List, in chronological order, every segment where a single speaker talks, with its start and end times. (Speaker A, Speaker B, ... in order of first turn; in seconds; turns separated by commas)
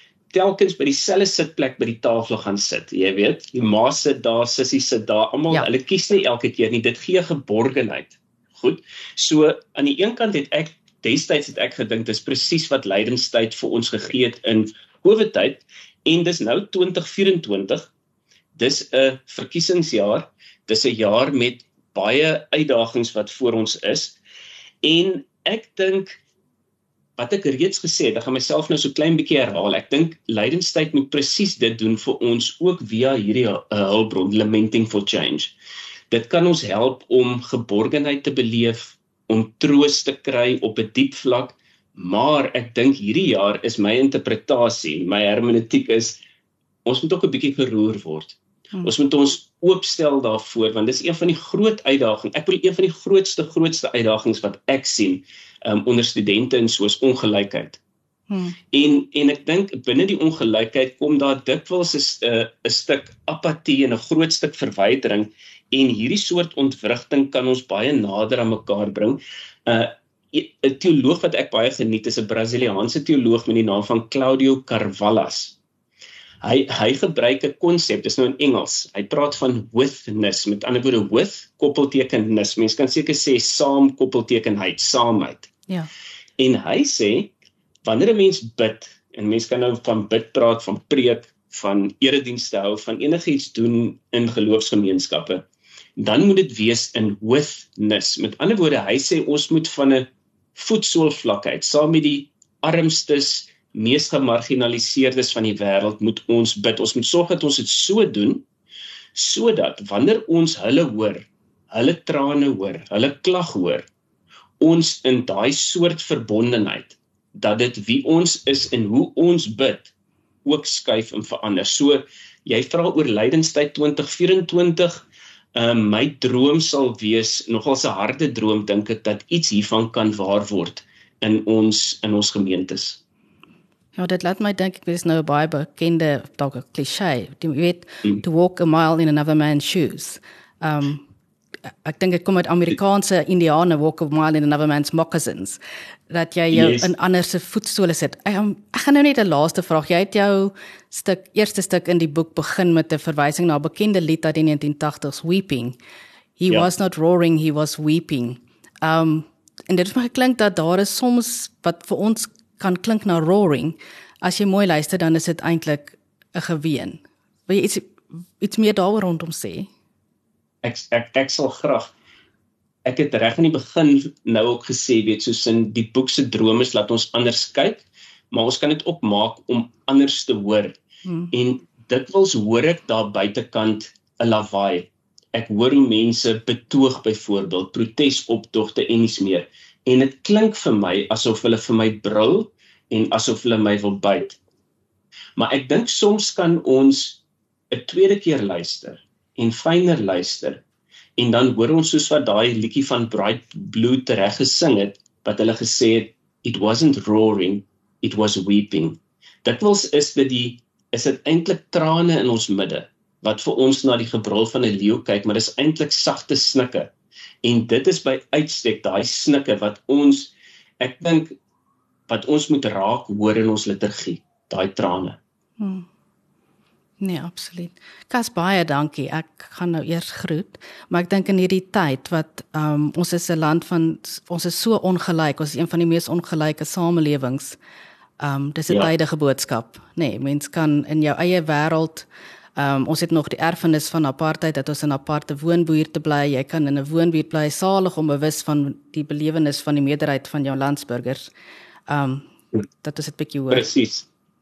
Speaker A: 0.3-17.9, Speaker A: 18.5-24.2, Speaker A: 24.8-26.2, Speaker A: 27.2-35.5, Speaker A: 36.1-46.2, Speaker A: 46.9-57.8, Speaker B: 58.3-58.6, Speaker A: 58.7-75.6, Speaker A: 76.4-85.5, Speaker A: 86.4-95.5, Speaker A: 96.0-108.5, Speaker A: 109.2-113.9, Speaker A: 114.6-119.9, Speaker A: 120.4-133.0, Speaker B: 134.0-141.0, Speaker B: 141.8-155.8, Speaker A: 146.5-146.9, Speaker B: 156.4-169.7, Speaker A: 170.6-171.9, Speaker A: 172.8-180.8, Speaker B: 181.1-181.3, Speaker A: 181.3-194.4, Speaker A: 195.4-200.6, Speaker A: 201.2-216.9, Speaker A: 217.4-221.3, Speaker A: 222.1-225.2, Speaker B: 225.6-225.9, Speaker B: 227.0-237.6, Speaker B: 238.2-251.3, Speaker B: 251.9-252.3, Speaker B: 252.8-253.7, Speaker A: 253.5-254.1